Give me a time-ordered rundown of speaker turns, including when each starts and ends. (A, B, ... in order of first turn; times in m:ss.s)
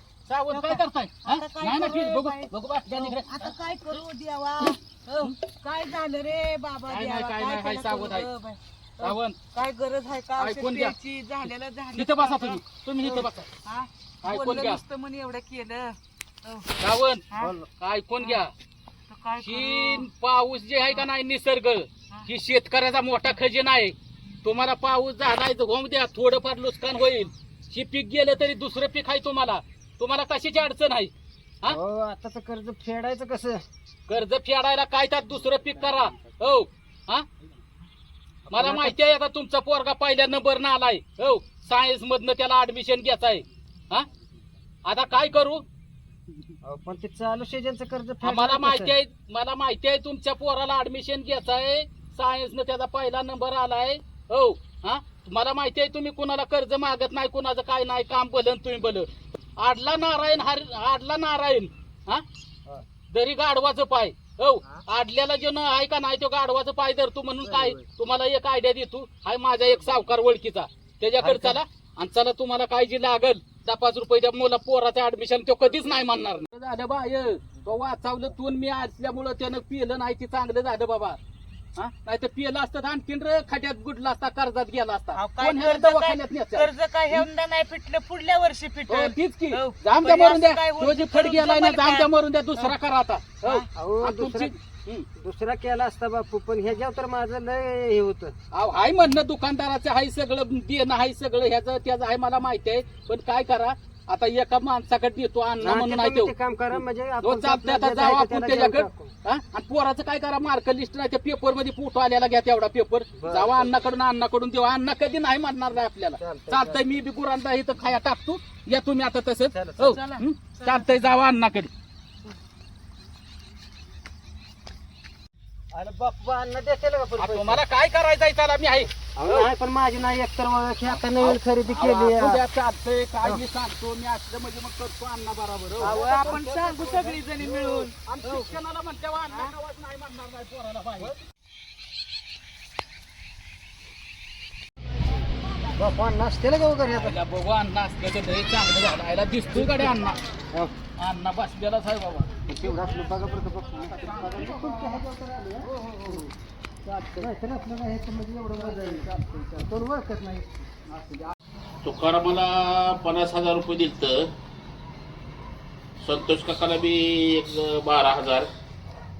0:00.3-0:03.5 A
0:00.5-0:12.6 B
0:06.9-0:08.3 A
0:09.0-0:09.4 A
0:10.4-0:10.9 A
0:11.9-0:13.5 A
0:13.6-0:16.7 B
0:14.2-0:14.8 A
0:16.8-0:17.2 A
0:17.4-0:17.6 C
0:17.8-0:18.5 A
0:19.1-0:20.0 B
0:19.4-0:31.8 A
0:31.6-0:33.6 C
0:34.1-0:37.2 A
0:38.5-0:38.9 C
0:38.5-0:44.1 A
0:44.8-0:45.6 A
0:46.6-0:48.9 C
0:48.2-1:02.2 A
1:03.1-1:21.2 A
1:07.4-1:07.8 C
1:11.2-1:11.6 C
1:21.8-1:27.2 A
1:25.1-1:32.7 B
1:28.9-1:35.0 A
1:33.4-1:33.6 B
1:33.7-1:34.5 C
1:35.2-1:38.3 C
1:38.5-1:46.3 A
1:45.6-1:49.1 C
1:47.2-2:01.7 A
1:53.2-1:53.7 C
1:56.2-1:56.8 C
1:59.5-2:00.0 C
1:59.8-2:00.9 B
2:05.7-2:07.6 C
2:07.2-2:09.5 A
2:09.2-2:12.4 C
2:10.9-2:16.4 A
2:15.8-2:18.6 C
2:15.8-2:17.9 B
2:18.2-2:21.1 A
2:25.7-2:27.2 C
2:26.9-2:30.2 A
2:29.6-2:29.9 C
2:31.0-2:32.3 A
2:32.5-2:35.7 C
2:33.9-2:35.0 A
2:35.6-2:36.3 A
2:36.8-2:37.3 A
2:37.2-2:40.5 C
2:38.6-2:39.7 A
2:40.9-2:41.3 A
2:41.8-2:44.3 D
2:46.0-2:48.5 D